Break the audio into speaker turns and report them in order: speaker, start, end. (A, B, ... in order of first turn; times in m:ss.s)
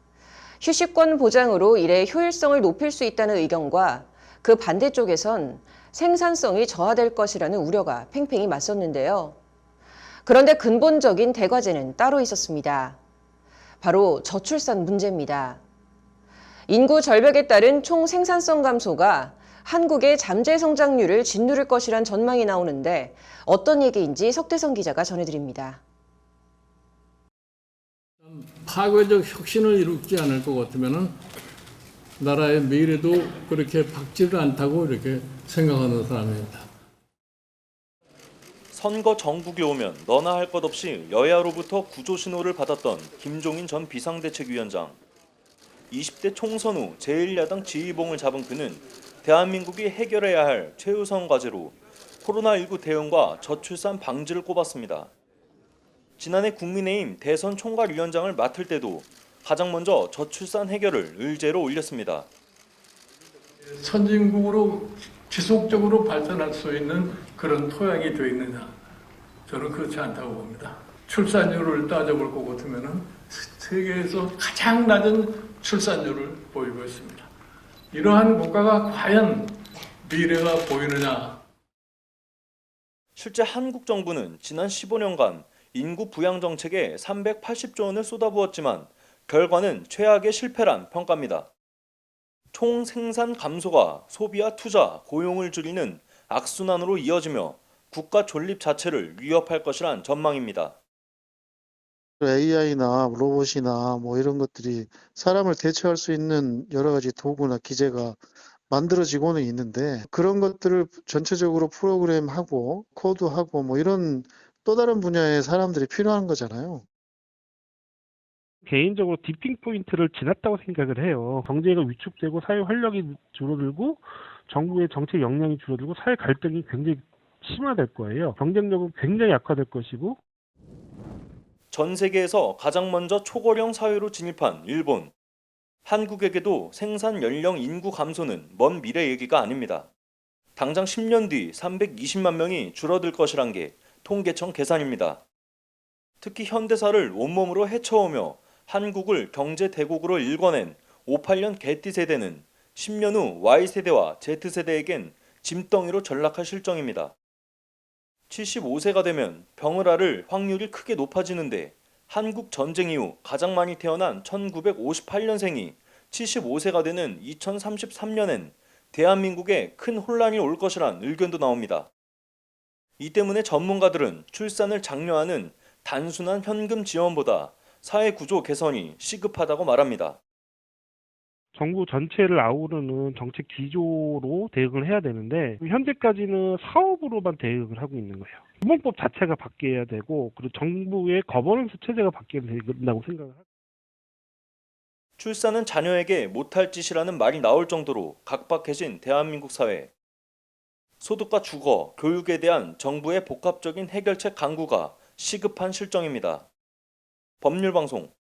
0:00.6-0:09.4 A
0:10.2-0:13.0 A
0:13.8-0:15.6 A
0:16.7-0:25.8 A
0:28.2-0:31.1 B
0:32.2-0:36.6 B
0:38.7-0:45.0 C
0:45.9-0:55.1 C
0:56.2-1:02.3 C
1:03.7-1:08.7 B
1:09.5-1:17.3 B
1:17.9-1:21.4 B
1:23.2-1:31.5 C
1:32.5-1:40.8 C
1:42.2-1:56.8 D
1:58.6-2:10.2 E
2:11.7-2:15.1 C
2:15.8-2:19.9 C
2:20.6-2:25.2 C
2:26.2-2:37.1 C
2:38.3-2:51.9 C
2:53.0-3:00.2 C
3:01.5-3:13.4 E
3:15.2-3:19.9 C
3:21.0-3:26.5 C
3:27.4-3:28.1 C